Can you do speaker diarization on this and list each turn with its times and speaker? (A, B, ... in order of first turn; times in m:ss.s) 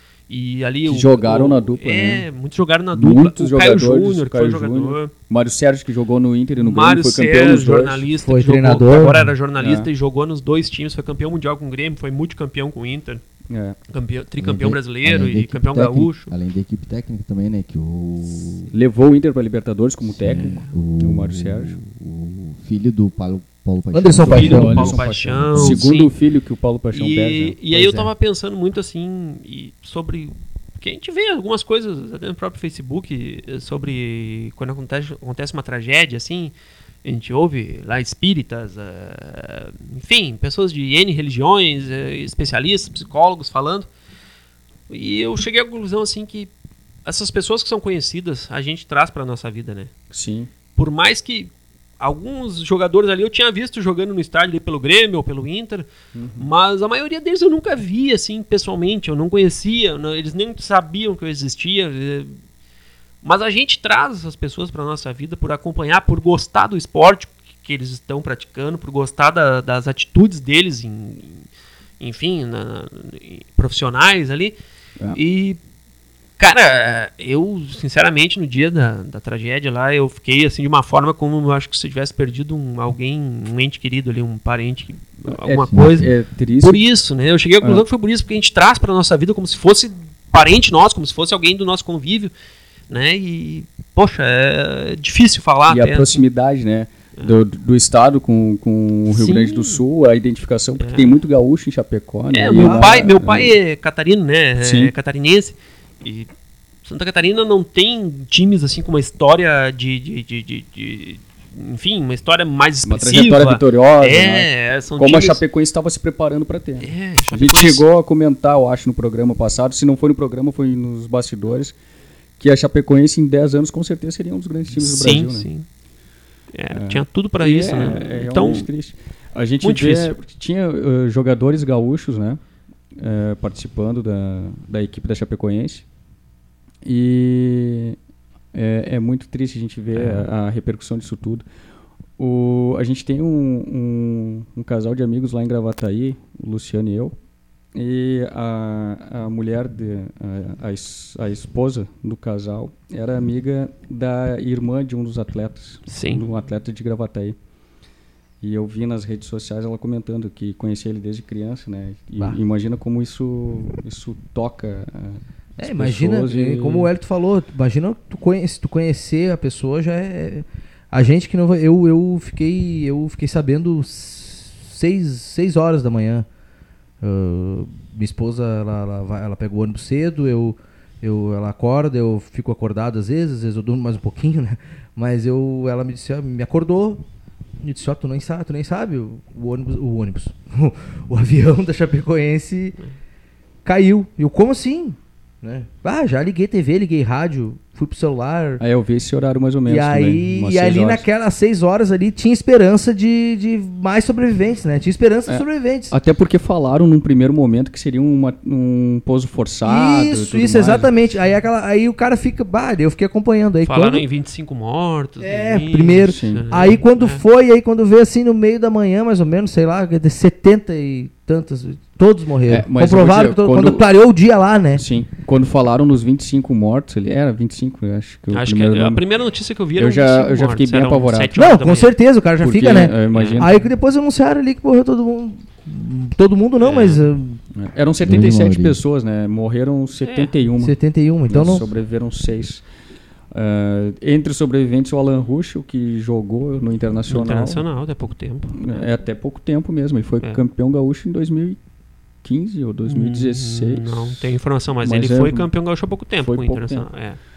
0:00.3-0:05.1 A
0:00.8-0:02.2 B
0:02.9-0:08.0 B
0:06.6-0:13.2 A
0:08.2-0:09.3 C
0:09.6-0:09.9 B
0:13.5-0:13.8 B
0:13.9-0:16.3 A
0:14.4-0:18.7 D
0:18.7-0:21.8 B
0:20.0-0:25.9 D
0:20.4-0:20.7 A
0:23.9-0:25.0 C
0:24.2-0:27.6 B
0:24.2-0:26.1 A
0:26.9-0:36.5 A
0:27.7-0:28.1 C
0:37.0-0:43.9 A
0:44.9-0:46.5 A
0:47.0-0:49.9 A
0:50.1-0:50.5 B
0:50.8-0:55.9 A
0:56.1-0:56.5 B
0:56.4-1:02.4 A
1:03.2-1:11.4 A
1:12.0-1:14.6 A
1:15.1-1:15.6 A
1:16.4-1:32.3 A
1:25.2-1:26.8 B
1:25.7-1:26.1 D
1:32.9-1:36.2 A
1:35.7-1:43.5 B
1:39.1-1:39.8 A
1:40.8-1:41.2 A
1:42.3-1:46.3 A
1:42.5-1:43.0 C
1:44.6-1:44.9 B
1:46.8-1:55.4 A
1:52.8-2:01.8 B
1:56.8-1:57.8 A
2:02.4-2:05.5 B
2:04.8-2:05.6 A
2:06.5-2:08.7 A
2:06.7-2:12.4 B
2:09.6-2:10.1 A
2:13.0-2:15.8 B
2:16.8-2:18.0 B
2:18.5-2:21.4 B
2:20.0-2:20.2 A
2:22.2-2:27.1 B
2:27.7-2:37.4 B
2:35.9-2:36.2 A
2:38.4-2:46.9 B
2:45.6-2:56.2 C
2:57.0-3:07.0 C
3:07.6-3:12.8 C
3:13.6-3:18.6 C
3:18.6-3:21.0 B
3:19.6-3:25.9 C
3:25.3-3:31.0 B
3:29.6-3:34.0 C
3:33.6-3:37.2 A
3:35.2-3:44.8 C
3:36.0-3:36.4 B
3:42.5-3:43.8 B
3:44.7-3:49.0 B
3:48.3-3:51.9 A
3:49.8-3:51.3 B
3:51.4-3:57.4 C
3:52.4-3:53.6 B
3:53.1-3:53.5 A
3:56.6-3:57.1 A
3:57.6-4:00.8 B
3:58.0-3:58.8 D
4:00.0-4:00.3 A
4:00.6-4:01.7 C
4:01.3-4:02.6 B
4:03.3-4:07.6 B
4:07.1-4:08.8 A
4:08.5-4:11.6 B
4:12.2-4:14.3 B
4:12.9-4:17.2 A
4:14.8-4:15.5 B
4:16.2-4:16.9 B